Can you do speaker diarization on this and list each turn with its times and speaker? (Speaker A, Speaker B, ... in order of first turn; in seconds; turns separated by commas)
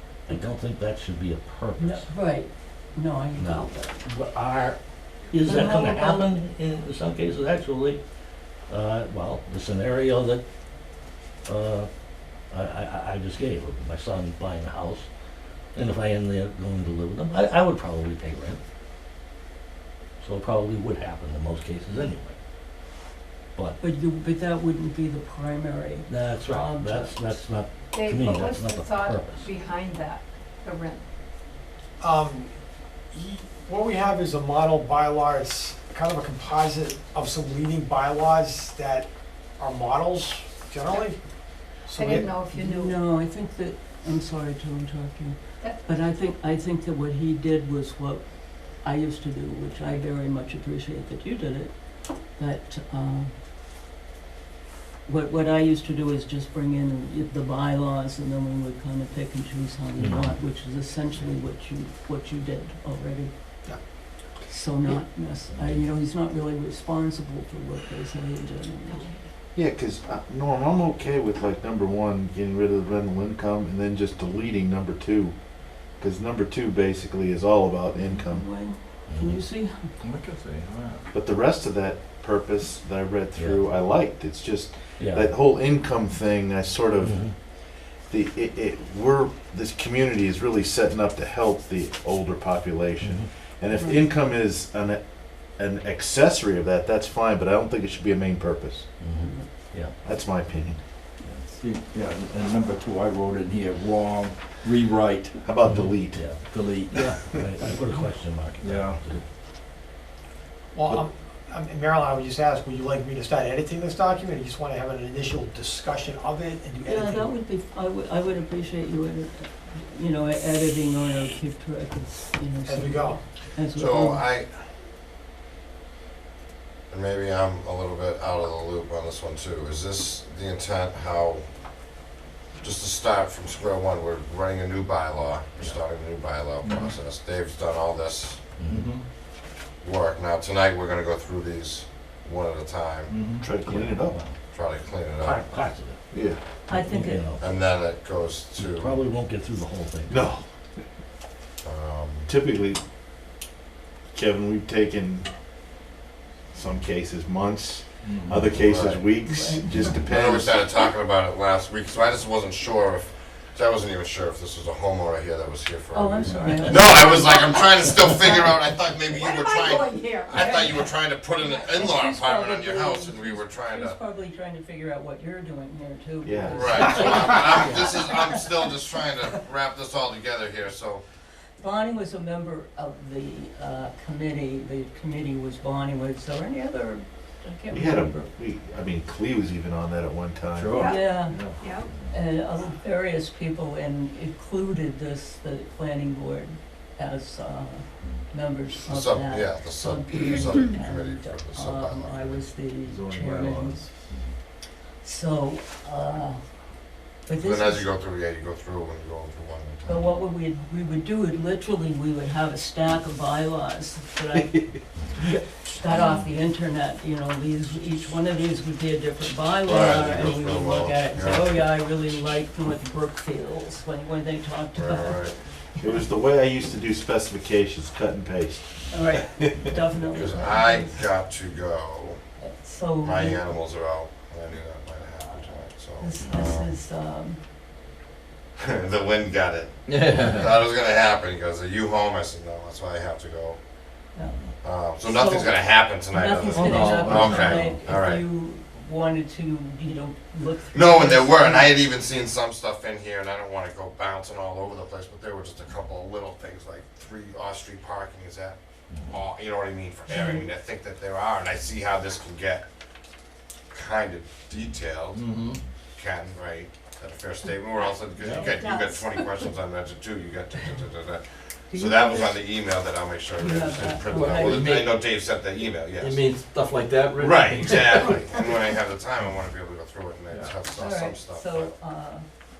Speaker A: 0.3-2.1, Speaker B: 1.8-4.0, Speaker A: 3.4-4.8, Speaker A: 5.3-8.0, Speaker B: 5.4-6.3, Speaker A: 8.7-10.4, Speaker A: 11.5-11.9, Speaker A: 12.5-15.1, Speaker A: 15.8-18.6, Speaker A: 20.2-22.4, Speaker B: 23.8-27.4, Speaker A: 26.1-29.5, Speaker C: 27.9-31.1, Speaker D: 32.0-32.5, Speaker D: 33.1-41.2, Speaker D: 41.9-42.2, Speaker C: 41.9-43.0, Speaker B: 42.2-53.3, Speaker C: 45.6-45.9, Speaker B: 55.1-63.3, Speaker A: 60.0-60.3, Speaker B: 64.5-69.1, Speaker C: 68.9-69.2, Speaker E: 69.5-75.3, Speaker E: 76.0-78.4, Speaker B: 78.0-79.9, Speaker A: 79.1-79.4, Speaker F: 80.0-81.0, Speaker E: 81.1-87.3, Speaker A: 83.4-83.6, Speaker A: 85.0-85.3, Speaker A: 87.0-87.3, Speaker E: 88.1-98.8, Speaker A: 93.0-93.3, Speaker B: 93.7-94.0, Speaker A: 99.0-99.9, Speaker E: 100.0-100.8, Speaker F: 101.5-105.5, Speaker E: 105.5-106.3, Speaker A: 105.7-109.2, Speaker F: 106.4-107.3, Speaker F: 108.6-109.1, Speaker D: 110.7-117.3, Speaker B: 116.8-124.3, Speaker D: 122.6-123.2, Speaker G: 123.7-124.5, Speaker G: 126.9-131.4, Speaker G: 132.6-138.4, Speaker F: 136.6-137.0, Speaker A: 138.6-138.9, Speaker F: 138.7-139.0, Speaker G: 139.8-143.2, Speaker F: 143.1-143.5, Speaker E: 143.4-144.2, Speaker A: 143.6-144.4, Speaker G: 144.5-145.6, Speaker A: 145.2-146.0, Speaker E: 146.1-146.4, Speaker B: 146.7-147.3, Speaker A: 146.7-147.6, Speaker G: 147.4-149.0, Speaker A: 148.6-150.2, Speaker E: 150.1-150.8, Speaker G: 151.6-152.3, Speaker E: 152.3-152.8, Speaker E: 154.1-155.3, Speaker E: 156.5-160.7, Speaker F: 158.0-158.7, Speaker G: 158.6-159.1, Speaker B: 159.2-159.9, Speaker G: 160.0-174.0, Speaker B: 165.9-167.6, Speaker C: 169.1-170.9, Speaker B: 170.4-170.7, Speaker B: 171.4-178.4, Speaker E: 176.2-177.4, Speaker G: 176.5-181.0, Speaker B: 181.6-188.1, Speaker E: 187.7-190.8, Speaker F: 190.5-191.6, Speaker C: 190.8-191.9, Speaker B: 190.8-191.4, Speaker B: 192.1-203.8, Speaker G: 198.8-202.4, Speaker F: 202.8-204.2, Speaker B: 205.0-206.4, Speaker B: 207.3-207.9, Speaker G: 207.4-210.1, Speaker B: 209.9-225.2, Speaker G: 219.6-221.6, Speaker G: 224.7-225.4, Speaker E: 225.8-228.7, Speaker B: 228.9-231.0, Speaker G: 230.1-232.2, Speaker B: 232.4-233.4, Speaker G: 233.0-236.7, Speaker B: 235.2-237.4, Speaker G: 238.6-243.6, Speaker F: 239.9-240.6, Speaker A: 244.2-244.5, Speaker G: 244.6-248.2, Speaker B: 245.0-251.8, Speaker F: 246.5-247.7, Speaker G: 250.7-262.6, Speaker A: 258.9-259.2, Speaker B: 260.1-260.5, Speaker G: 263.7-265.2, Speaker F: 265.1-265.6, Speaker G: 265.9-276.2, Speaker C: 268.4-269.2, Speaker B: 271.7-272.4, Speaker B: 273.4-274.7, Speaker F: 274.2-275.1, Speaker F: 276.0-278.1, Speaker G: 277.2-281.7, Speaker F: 280.3-280.6, Speaker B: 280.8-282.3